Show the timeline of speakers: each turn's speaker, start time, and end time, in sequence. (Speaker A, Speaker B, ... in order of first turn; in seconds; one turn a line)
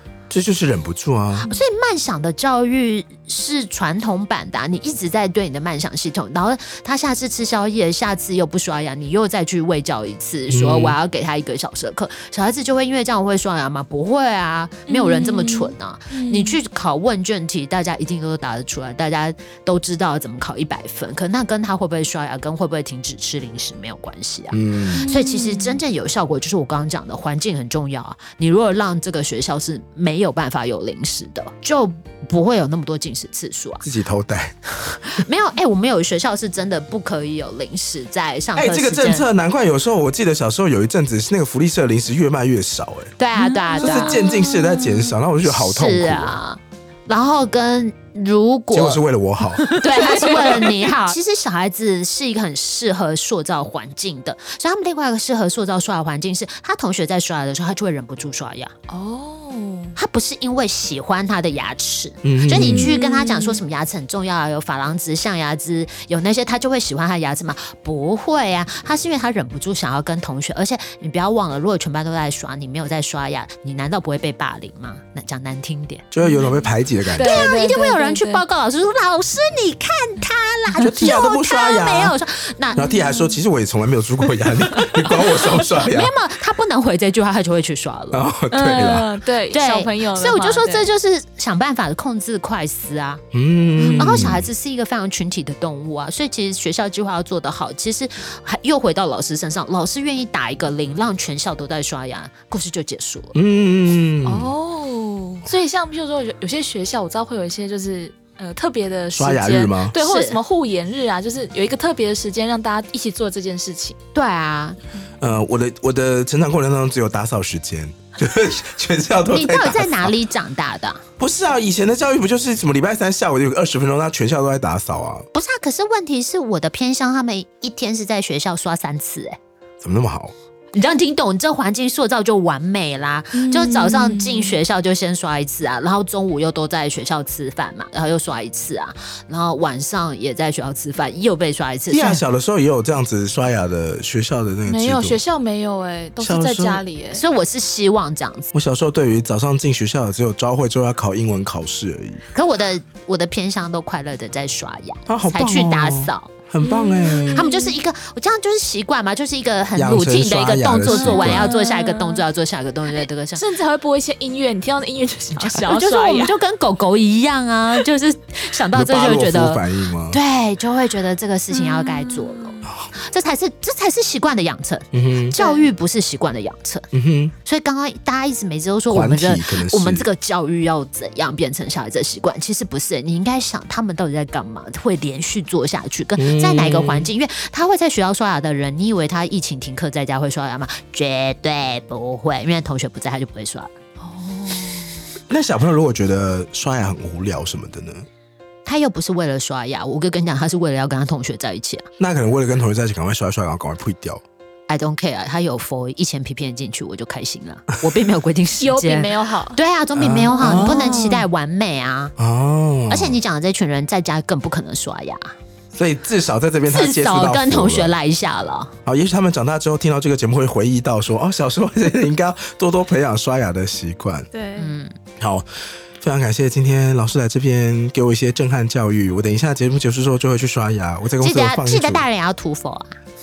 Speaker A: 0.3-1.5
Speaker B: 1.4-33.9
Speaker A: 10.5-11.0
Speaker C: 14.9-16.6
Speaker A: 24.5-25.0
Speaker C: 24.9-25.8
Speaker A: 33.8-34.6
Speaker B: 34.8-39.2
Speaker A: 38.6-43.1
Speaker B: 43.2-44.2
Speaker C: 43.4-45.2
Speaker A: 43.8-46.4
Speaker B: 45.4-49.0
Speaker A: 48.7-50.6
Speaker B: 49.6-58.7
Speaker C: 49.8-50.9
Speaker C: 58.9-60.0
Speaker B: 60.0-76.1
Speaker A: 62.2-62.9
Speaker C: 62.6-63.6
Speaker A: 76.1-77.5
Speaker C: 76.2-78.4
Speaker B: 77.2-83.0
Speaker A: 80.8-82.2
Speaker A: 82.8-86.1
Speaker C: 82.8-83.4
Speaker B: 84.8-88.2
Speaker A: 88.1-89.1
Speaker C: 88.5-90.9
Speaker B: 89.5-93.2
Speaker A: 93.3-94.5
Speaker C: 93.8-94.3
Speaker B: 94.0-103.3
Speaker A: 103.3-104.5
Speaker C: 104.2-114.0
Speaker A: 109.1-109.9
Speaker B: 110.0-110.4
Speaker B: 114.1-114.8
Speaker A: 115.2-120.1
Speaker B: 119.3-121.0
Speaker A: 121.2-125.3
Speaker B: 125.3-129.4
Speaker A: 129.8-130.3
Speaker B: 130.7-142.2
Speaker C: 133.3-134.6
Speaker A: 141.9-145.2
Speaker C: 144.7-147.2
Speaker A: 146.2-146.8
Speaker B: 147.1-148.5
Speaker A: 148.5-152.2
Speaker B: 152.3-156.3
Speaker A: 155.1-157.5
Speaker C: 156.6-157.8
Speaker B: 157.3-163.4
Speaker A: 159.8-161.5
Speaker C: 160.8-162.2
Speaker C: 163.0-166.3
Speaker B: 165.3-176.9
Speaker A: 168.7-170.2
Speaker C: 171.5-172.7
Speaker A: 174.9-175.3
Speaker C: 175.4-175.7
Speaker A: 176.9-177.3
Speaker B: 177.4-193.7
Speaker A: 178.9-180.1
Speaker A: 186.2-187.1
Speaker C: 194.0-195.0
Speaker A: 195.3-198.1
Speaker B: 198.7-201.9
Speaker A: 202.0-204.2
Speaker B: 204.7-212.1
Speaker C: 208.6-209.6
Speaker A: 210.0-211.2
Speaker C: 210.4-211.1
Speaker A: 212.2-213.2
Speaker B: 212.9-215.3
Speaker A: 215.7-217.9
Speaker B: 216.7-218.7
Speaker A: 218.9-224.3
Speaker C: 224.3-224.7
Speaker B: 224.6-224.9
Speaker A: 225.2-225.5
Speaker A: 226.0-232.1
Speaker B: 231.2-232.9